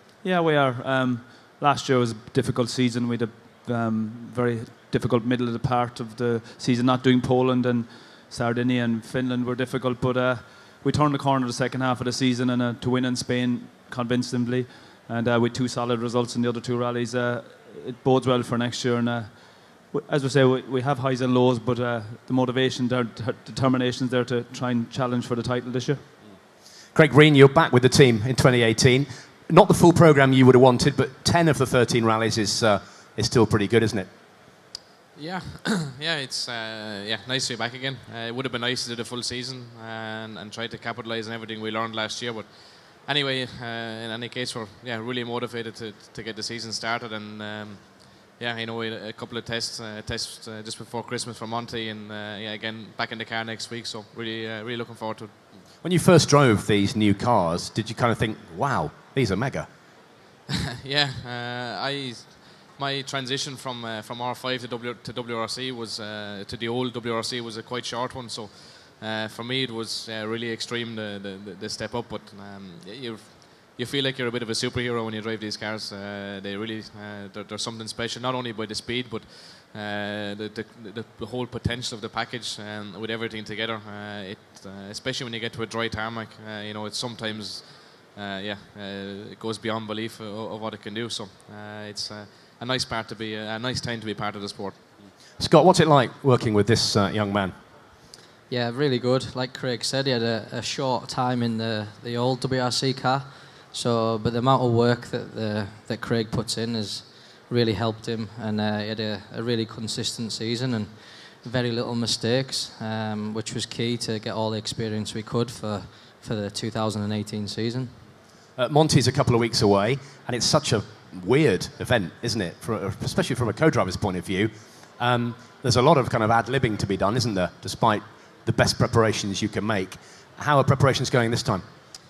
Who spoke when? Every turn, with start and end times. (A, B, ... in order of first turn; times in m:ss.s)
0:00.2-0:26.0 A
0:26.9-0:34.1 B
0:35.1-0:55.5 C
0:55.8-0:59.7 B
1:00.8-1:34.8 C
1:35.4-1:37.5 B
1:38.5-1:58.0 D
1:58.6-2:11.6 B